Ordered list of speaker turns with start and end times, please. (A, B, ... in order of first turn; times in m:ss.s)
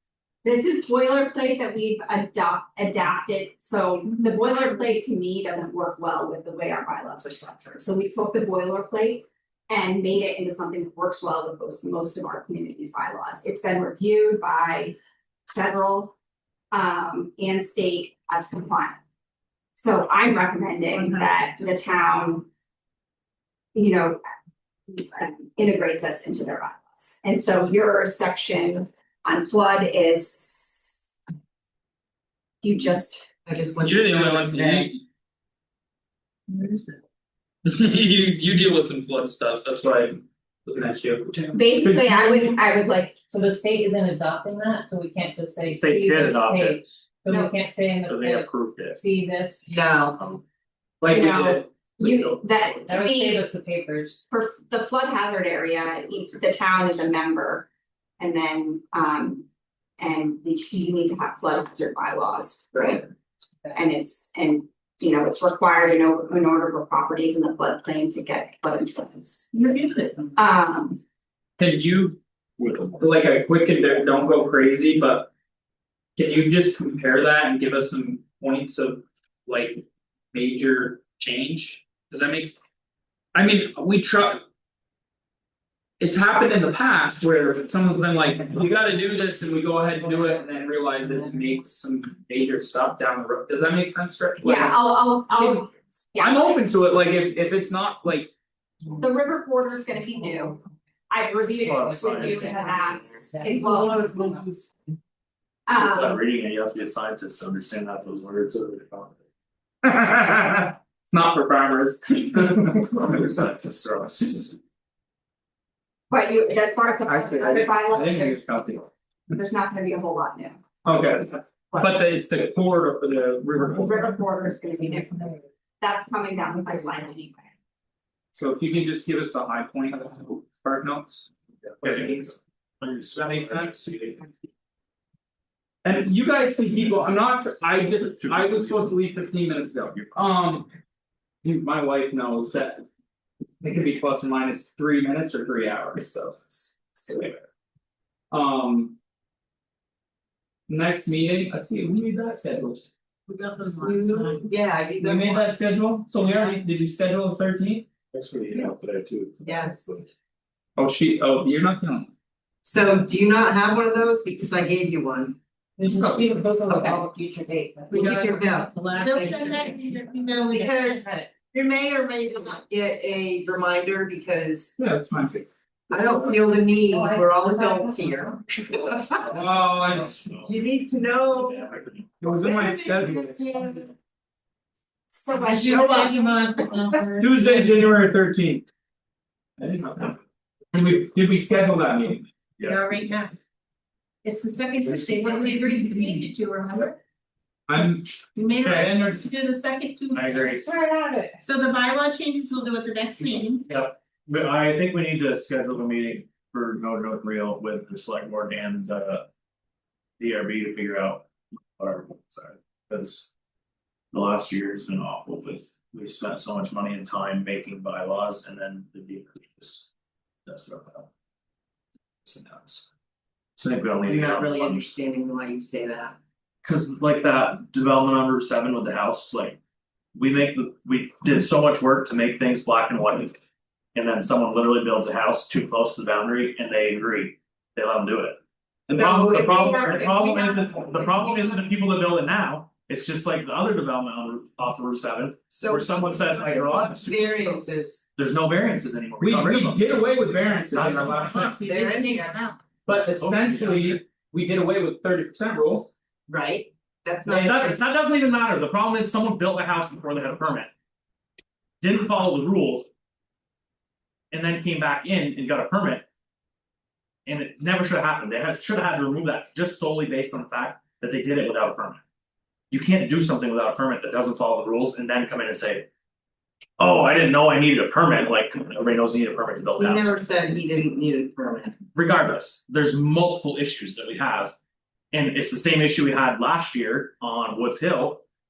0:00.4-0:15.0 A
0:15.5-0:16.2 A
0:16.7-0:19.0 A
0:19.8-0:22.5 A
0:23.7-0:24.2 A
0:24.9-0:31.1 A
0:32.6-0:33.3 A
0:33.5-0:34.9 B
0:33.8-0:35.0 C
0:36.6-0:36.9 C
0:37.6-0:42.6 C
0:41.5-0:43.2 A
0:43.3-0:49.7 D
0:45.7-0:46.8 E
0:47.3-0:47.5 A
0:48.1-0:49.0 E
0:49.7-0:50.2 B
0:51.0-0:52.4 C
0:51.1-0:53.5 A
0:52.9-0:54.2 D
0:54.3-0:57.7 A
0:58.2-0:59.5 A
1:00.0-1:03.1 A
1:03.7-1:09.5 A
1:09.5-1:10.3 D
1:10.4-1:11.0 A
1:11.6-1:12.2 C
1:12.6-1:13.0 E
1:13.0-1:15.3 C
1:16.2-1:22.6 C
1:23.3-1:24.4 C
1:26.0-1:34.8 C
1:34.4-1:36.6 A
1:35.3-1:35.6 C
1:36.2-1:38.3 C
1:39.0-1:44.4 A
1:41.5-1:43.0 E
1:42.1-1:44.4 D
1:43.6-1:44.7 B
1:45.7-1:46.2 A
1:45.8-1:49.2 E
1:49.8-1:52.9 C
1:52.8-1:54.6 E
1:56.1-1:58.7 A
1:57.1-1:58.8 C
1:59.3-2:00.6 A
2:00.8-2:04.0 C
2:01.7-2:02.1 A
2:03.7-2:07.5 A
2:08.3-2:11.3 C
2:11.7-2:14.3 E
2:11.8-2:12.4 C
2:13.2-2:14.1 C
2:15.8-2:20.7 C
2:18.1-2:18.9 E
2:21.4-2:22.8 C
2:23.6-2:27.4 C
2:28.3-2:29.0 C
2:30.7-2:32.9 C
2:33.3-2:34.4 D
2:33.8-2:35.5 B
2:35.0-2:37.9 C
2:38.1-2:40.0 E
2:39.4-2:40.0 B
2:40.8-2:42.1 C
2:42.6-2:45.4 B
2:45.8-2:51.3 D
2:45.9-2:46.3 C
2:46.7-2:47.1 B
2:47.9-2:54.7 B
2:49.0-2:50.2 F
2:54.8-2:55.5 C
2:55.9-2:59.3 B
2:56.9-2:58.3 D
2:59.2-3:00.3 C
2:59.2-3:02.0 E
3:00.4-3:01.8 B
3:02.2-3:03.6 C
3:02.4-3:03.9 B
3:05.1-3:06.3 A
3:05.4-3:07.6 D
3:07.2-3:08.7 C
3:09.6-3:10.2 C
3:10.7-3:12.3 C
3:12.6-3:12.9 E
3:12.7-3:13.3 F
3:14.2-3:17.0 F
3:14.4-3:16.4 D
3:17.7-3:19.2 C
3:18.4-3:20.5 F
3:18.6-3:18.8 E
3:20.1-3:20.7 E
3:20.5-3:21.4 D
3:21.4-3:23.6 F
3:23.7-3:29.3 E
3:30.2-3:33.3 E
3:34.1-3:39.9 E
3:40.5-3:41.1 E
3:42.2-3:42.9 E
3:43.6-3:44.9 E
3:44.0-3:46.2 B
3:46.6-3:49.6 E
3:50.2-3:53.4 E
3:54.0-4:09.8 E
3:58.9-4:01.6 B
4:05.5-4:08.0 B
4:09.2-4:11.6 C
4:10.7-4:11.6 E
4:11.6-4:12.2 F
4:11.6-4:12.4 B
4:12.0-4:12.6 D
4:12.8-4:15.9 C
4:13.0-4:14.0 E
4:16.3-4:18.0 B
4:17.3-4:20.7 E
4:21.8-4:22.9 E
4:24.3-4:26.0 E
4:27.3-4:32.0 E
4:32.7-4:35.9 E
4:36.8-4:40.1 E
4:39.8-4:41.8 B
4:42.0-4:44.5 E
4:45.1-4:48.2 E